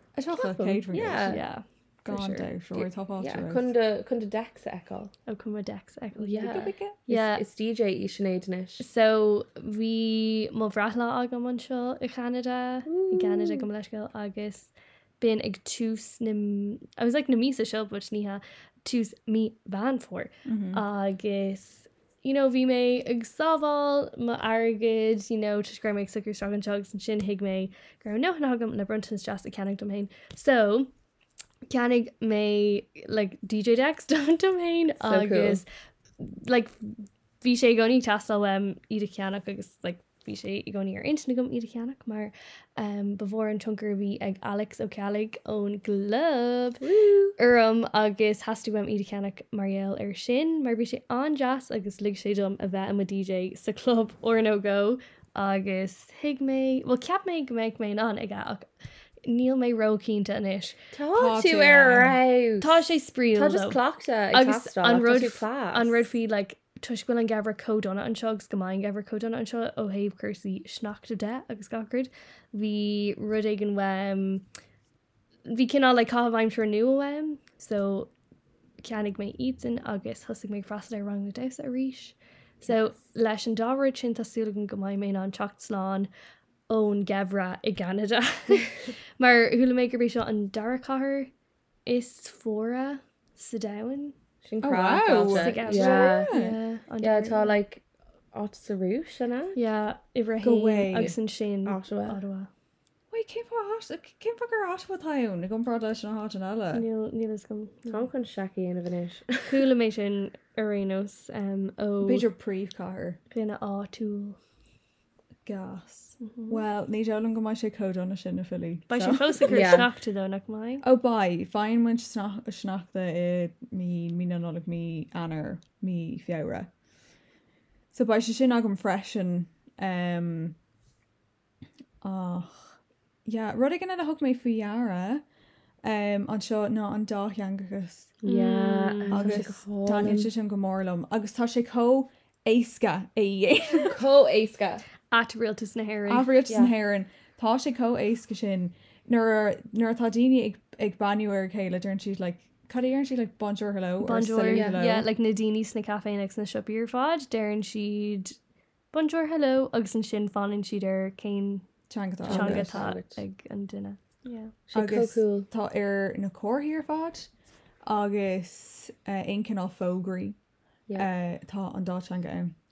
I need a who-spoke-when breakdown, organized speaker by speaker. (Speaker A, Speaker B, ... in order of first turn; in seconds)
Speaker A: 0.1-1.4, 2.0-3.7, 6.4-7.0, 20.4-20.8, 61.1-62.2, 94.6-96.6, 100.4-101.1, 103.1-106.8, 112.0-113.2, 115.5-119.6, 120.8-126.7, 127.9-130.6, 132.0-132.7, 133.2-135.2, 135.8-138.1, 139.1-144.0, 146.1-155.0, 161.9-162.8, 164.7-167.3, 167.8-170.4, 170.9-172.5
Speaker B: 0.3-1.4, 2.7-5.1, 6.2-8.8, 12.9-13.7, 35.0-35.6, 46.8-47.4, 60.9-62.8, 63.3-66.0, 94.4-96.3, 97.0-99.5, 101.7-102.2, 107.9-109.5, 119.5-119.9, 138.2-140.3, 143.9-144.8, 154.5-154.8, 162.2-163.2, 164.7-165.5
Speaker C: 1.3-2.5, 5.3-7.4, 8.8-30.9, 31.7-35.6, 36.2-46.8, 47.4-58.7, 59.2-60.8, 62.6-63.8, 64.3-74.4, 75.5-78.1, 78.8-86.1, 86.7-91.3, 91.8-94.1, 95.3-97.5, 99.5-102.5, 106.7-108.0, 109.5-112.2, 113.3-114.4, 116.2-116.6, 118.9-120.8, 138.2-139.4, 145.1-146.3, 154.0-158.4, 158.9-161.7, 162.2-164.5